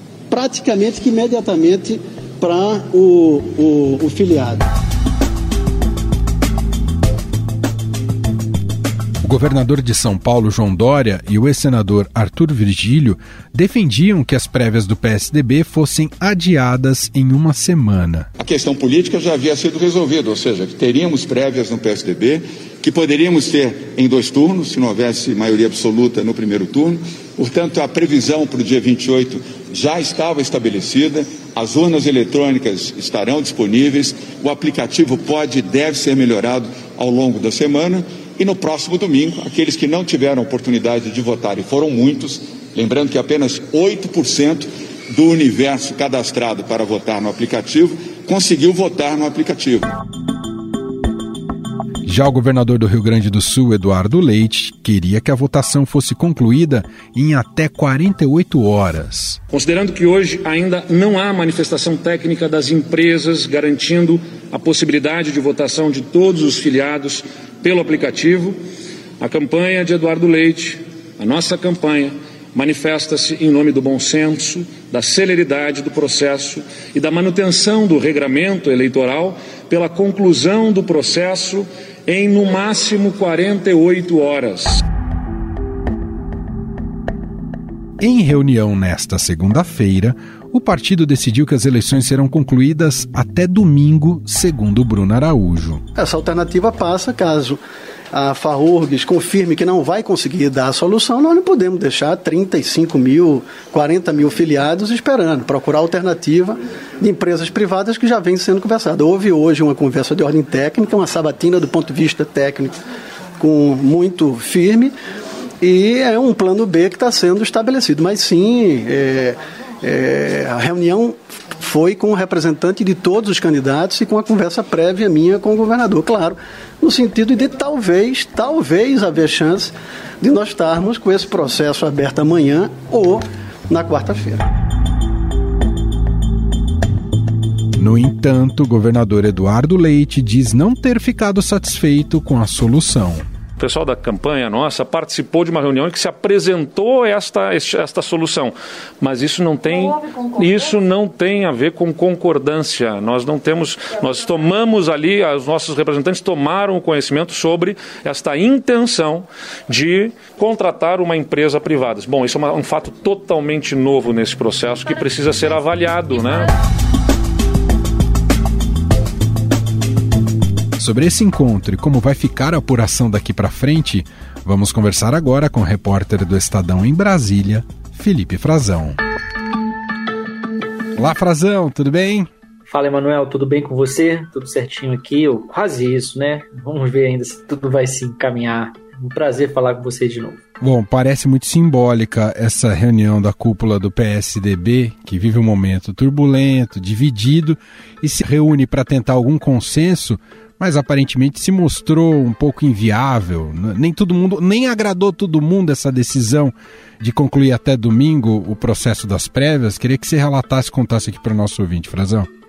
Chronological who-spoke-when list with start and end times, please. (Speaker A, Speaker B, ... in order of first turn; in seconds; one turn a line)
Speaker A: 0.3-4.7
Speaker B: 9.2-18.3
Speaker C: 18.4-50.0
Speaker B: 52.0-59.4
Speaker D: 59.5-68.6
Speaker D: 69.2-84.8
Speaker B: 88.0-95.8
Speaker A: 96.0-97.6
Speaker A: 98.1-112.8
Speaker A: 113.4-114.9
Speaker A: 115.6-134.4
Speaker B: 137.8-143.3
Speaker D: 143.6-166.5
Speaker B: 170.8-179.0
Speaker B: 181.0-182.3
Speaker E: 182.7-190.4
Speaker B: 190.6-212.3